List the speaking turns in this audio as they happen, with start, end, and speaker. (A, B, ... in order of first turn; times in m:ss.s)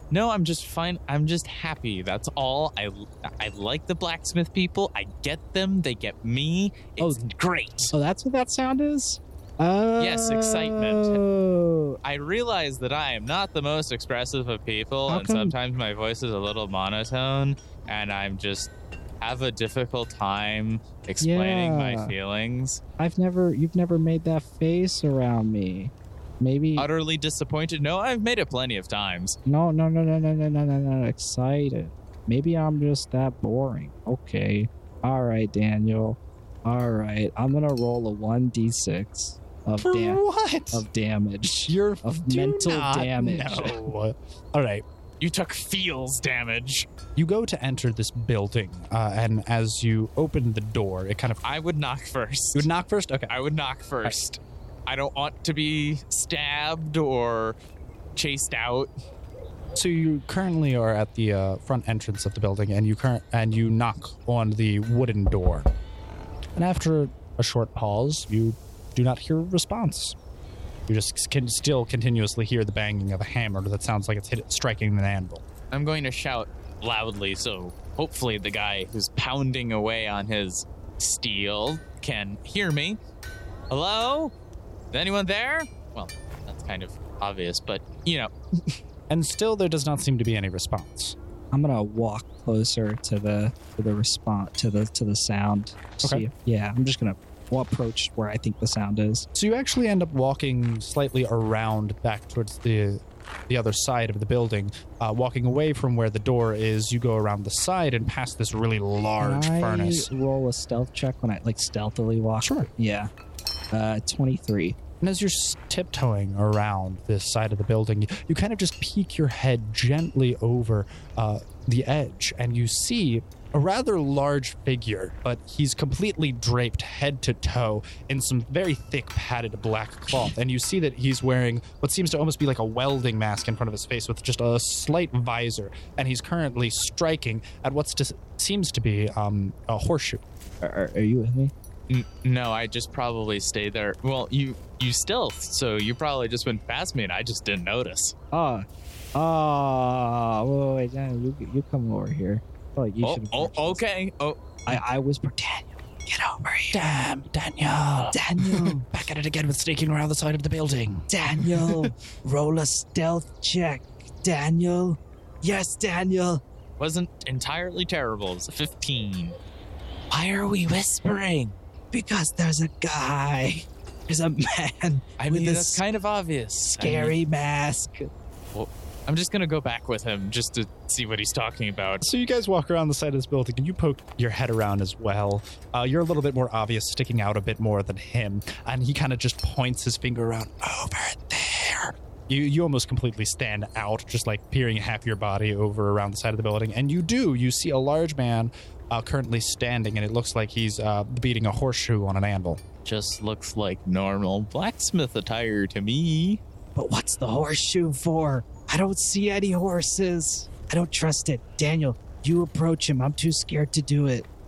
0:00.1-0:07.9 A
0:07.9-0:12.0 B
0:10.0-0:11.2 A
0:12.0-0:22.8 A
0:15.1-0:15.6 B
0:21.2-0:22.1 B
0:23.0-0:26.9 B
0:26.8-0:29.4 A
0:29.5-0:40.2 B
0:39.8-0:40.9 C
0:40.7-0:43.8 B
0:41.7-0:44.8 C
0:45.2-0:46.9 A
0:47.2-0:51.4 C
0:51.4-0:52.7 A
0:52.6-0:53.3 C
0:53.3-0:57.6 A
0:58.2-0:58.9 A
0:59.8-1:05.7 C
1:06.6-1:10.2 C
1:10.9-1:15.4 C
1:15.7-1:23.0 A
1:23.7-1:24.3 A
1:24.9-1:28.3 A
1:29.1-1:31.2 C
1:31.5-1:39.3 B
1:39.4-1:50.1 C
1:49.2-1:53.1 B
1:52.4-1:52.7 C
1:53.7-1:54.8 B
1:55.0-2:20.2 C
2:20.6-2:21.5 B
2:21.9-2:28.2 A
2:28.3-2:33.8 B
2:33.0-2:34.4 A
2:34.7-2:36.8 B
2:36.7-2:41.8 C
2:38.1-2:38.8 B
2:41.1-2:46.4 B
2:46.8-2:49.4 A
2:50.1-2:51.6 A
2:51.9-2:55.8 B
2:55.2-2:57.2 A
2:56.8-2:58.1 B
2:58.5-3:02.0 A
3:02.0-3:22.6 C
3:22.8-3:26.4 A
3:26.8-3:34.3 B